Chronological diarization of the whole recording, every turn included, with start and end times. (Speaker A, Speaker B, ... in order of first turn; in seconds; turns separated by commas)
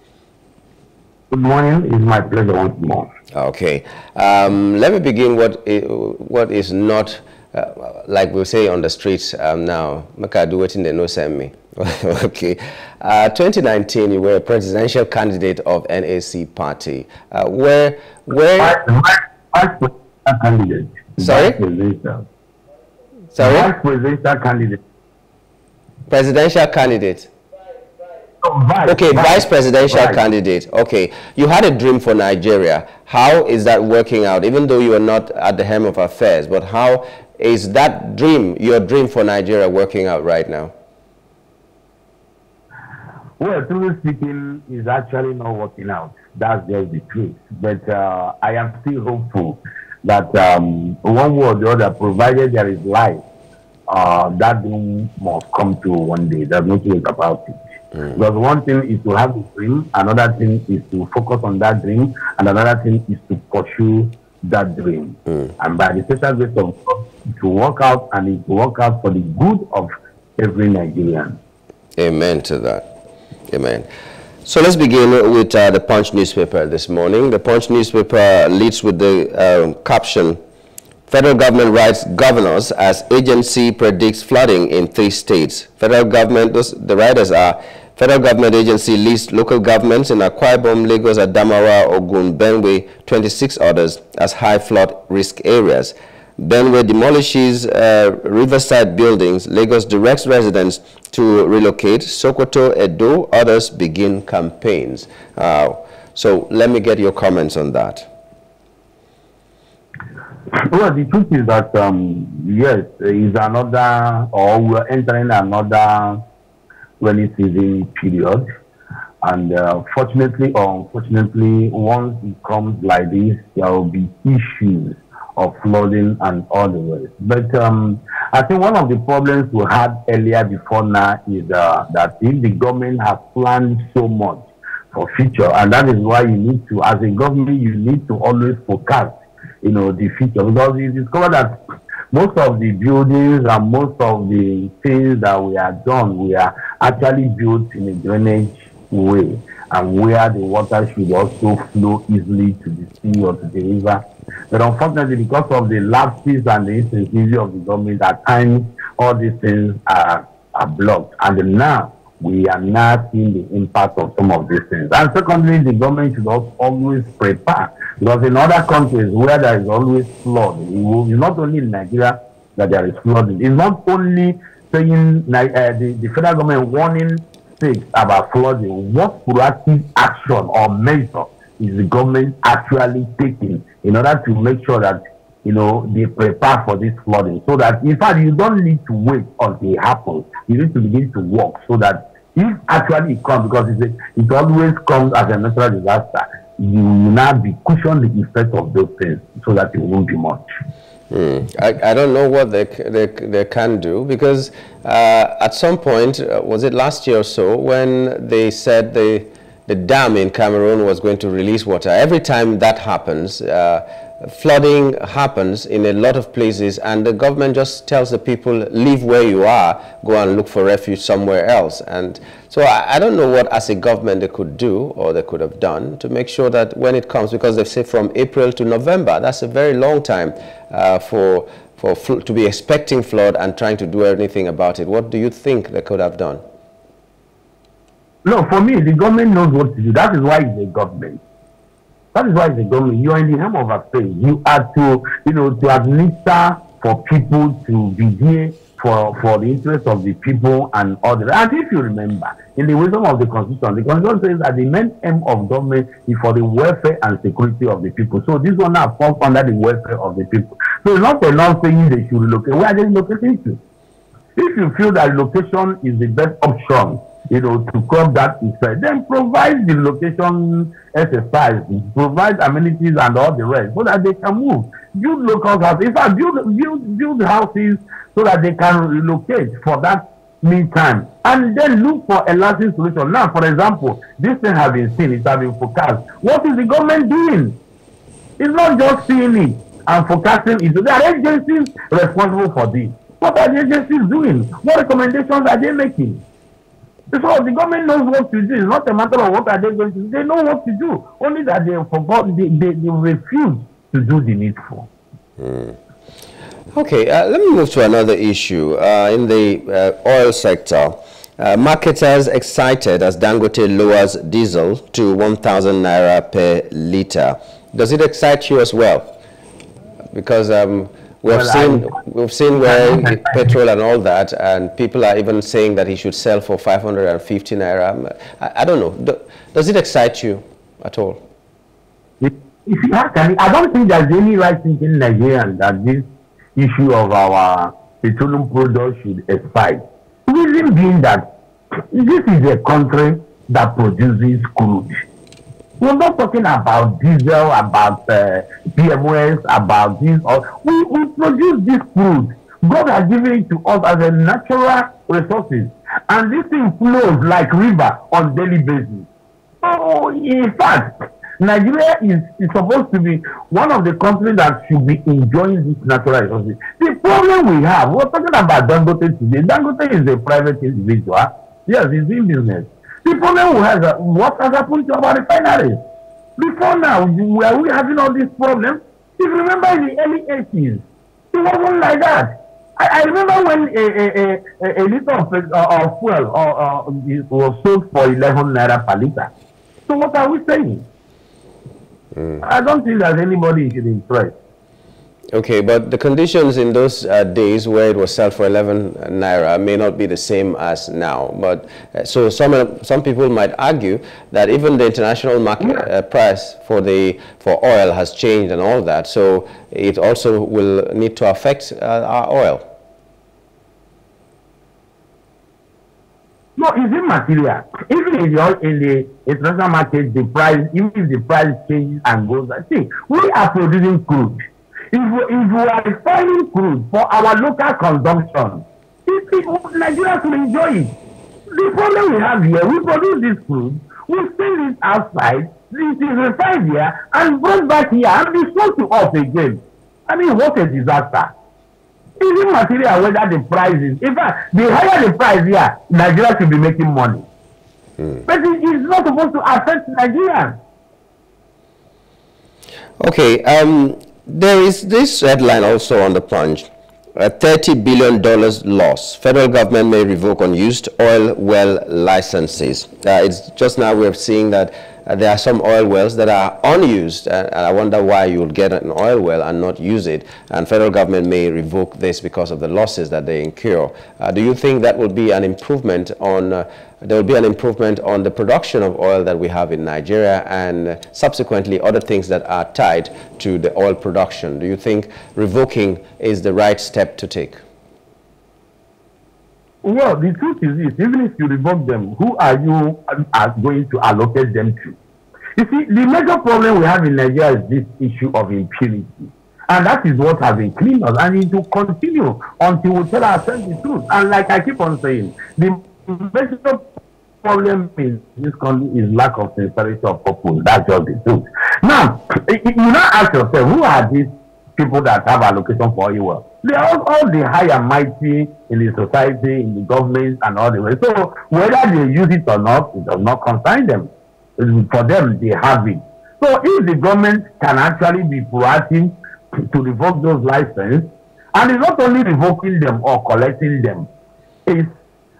Speaker A: 1.3-3.1, Speaker B: 3.3-18.8, Speaker A: 18.6-22.3, Speaker B: 21.2-21.6, Speaker B: 23.3-23.7, Speaker A: 23.4-24.8, Speaker B: 26.1-27.3, Speaker A: 28.4-30.2, Speaker B: 28.9-40.7, Speaker A: 43.4-53.2, Speaker A: 53.9-71.4, Speaker B: 72.0-72.9, Speaker B: 73.5-73.8, Speaker B: 74.4-80.4, Speaker B: 81.1-108.1, Speaker A: 110.5-116.2, Speaker A: 117.0-118.4, Speaker A: 119.2-141.6, Speaker A: 142.1-200.4, Speaker B: 201.1-236.4, Speaker A: 238.2-241.2, Speaker A: 242.1-263.6, Speaker A: 264.4-287.6, Speaker A: 288.4-296.2, Speaker A: 297.1-304.9, Speaker B: 305.4-305.8, Speaker B: 306.7-319.1, Speaker B: 320.1-331.2, Speaker A: 321.3-322.0, Speaker A: 322.6-323.4, Speaker A: 332.2-341.3, Speaker A: 341.9-344.9, Speaker A: 345.8-359.1, Speaker A: 359.6-375.8, Speaker A: 376.4-389.3, Speaker A: 389.9-390.9, Speaker A: 392.4-394.3, Speaker B: 395.3-412.6, Speaker A: 416.6-424.4, Speaker A: 424.9-430.9, Speaker A: 431.5-441.3, Speaker A: 442.2-447.3, Speaker A: 448.2-450.6, Speaker B: 453.0-487.6, Speaker A: 489.8-495.0, Speaker A: 495.6-506.8, Speaker A: 507.4-529.1, Speaker A: 529.7-534.1